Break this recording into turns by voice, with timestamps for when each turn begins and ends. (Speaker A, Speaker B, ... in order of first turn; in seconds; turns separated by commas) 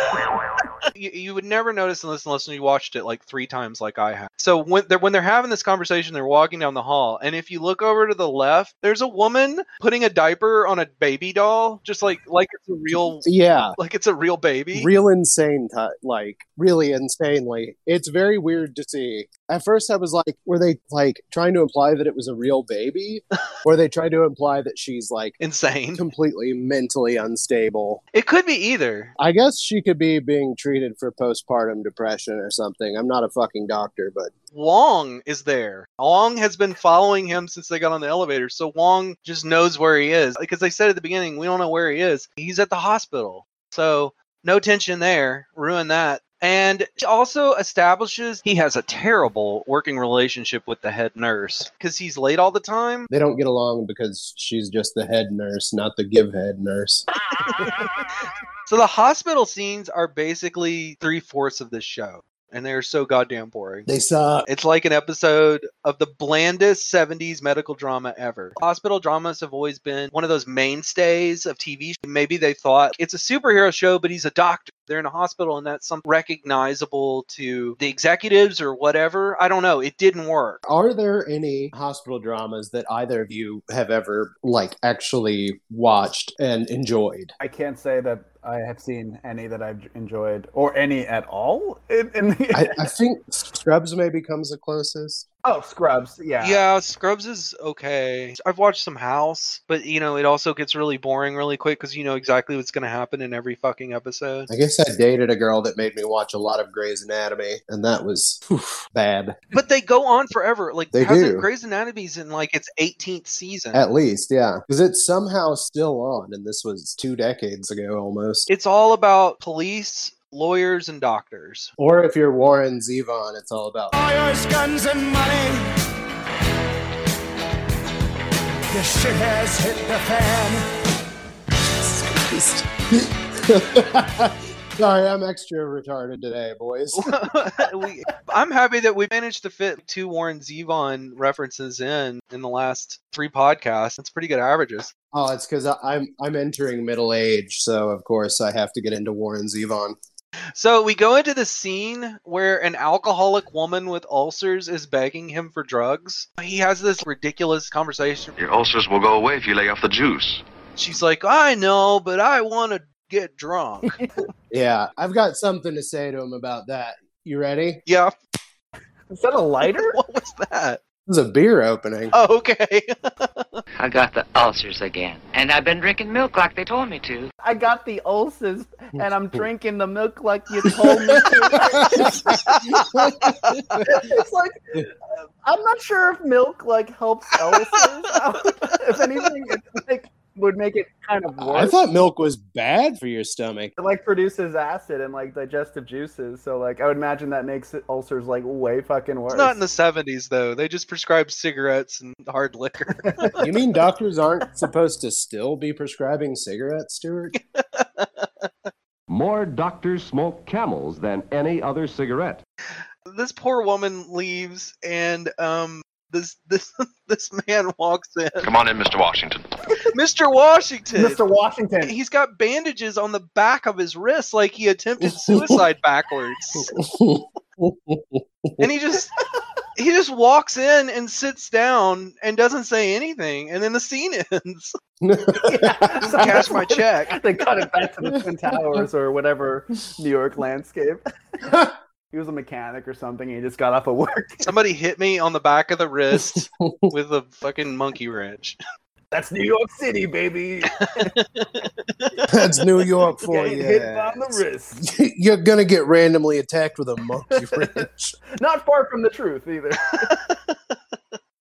Speaker A: 0.9-13.2, Speaker B: 13.2-13.8, Speaker A: 13.8-14.9, Speaker B: 14.7-25.4, Speaker A: 25.4-26.0, Speaker B: 25.9-28.0, Speaker A: 28.1-29.1, Speaker B: 29.2-34.3, Speaker A: 34.5-53.1, Speaker B: 53.1-57.0, Speaker A: 58.7-63.9, Speaker B: 63.9-64.5, Speaker A: 64.5-80.6, Speaker B: 80.6-87.3, Speaker C: 87.4-92.9, Speaker B: 92.5-95.2, Speaker C: 95.4-96.6, Speaker A: 96.4-104.5, Speaker B: 104.5-109.4, Speaker A: 109.5-113.8, Speaker B: 110.9-111.5, Speaker B: 113.7-118.5, Speaker A: 118.5-121.7, Speaker B: 121.8-123.9, Speaker D: 124.1-125.4, Speaker D: 128.9-129.5, Speaker B: 131.8-137.1, Speaker A: 137.0-144.9, Speaker B: 145.1-149.9, Speaker A: 150.5-158.3, Speaker E: 158.4-160.4, Speaker A: 160.8-163.9, Speaker C: 163.8-164.1, Speaker B: 164.5-167.8, Speaker A: 167.9-168.1, Speaker C: 169.1-170.0, Speaker A: 169.7-170.8, Speaker B: 171.1-172.1, Speaker A: 172.1-173.6, Speaker F: 173.8-177.3, Speaker C: 177.4-182.6, Speaker B: 180.8-181.2, Speaker B: 181.9-183.8, Speaker C: 183.8-191.8, Speaker B: 191.4-193.7, Speaker C: 193.8-199.5, Speaker A: 199.3-203.3, Speaker B: 203.4-207.3, Speaker A: 207.3-208.4, Speaker G: 209.1-212.4, Speaker A: 213.1-218.5, Speaker E: 218.4-219.5, Speaker A: 219.9-221.2, Speaker C: 221.0-221.9, Speaker A: 221.8-226.7, Speaker B: 225.0-225.6, Speaker B: 226.6-228.7, Speaker A: 228.6-229.1, Speaker A: 229.8-234.8, Speaker B: 235.0-236.7, Speaker C: 235.5-236.6, Speaker A: 236.0-237.2, Speaker C: 237.1-241.0, Speaker B: 238.1-238.8, Speaker B: 241.4-241.7, Speaker C: 242.1-244.5, Speaker A: 244.4-248.6, Speaker B: 246.1-246.9, Speaker C: 249.1-251.1, Speaker A: 251.1-252.1, Speaker B: 252.3-258.1, Speaker C: 253.2-254.8, Speaker C: 257.4-257.8, Speaker C: 258.4-260.1, Speaker A: 260.1-260.5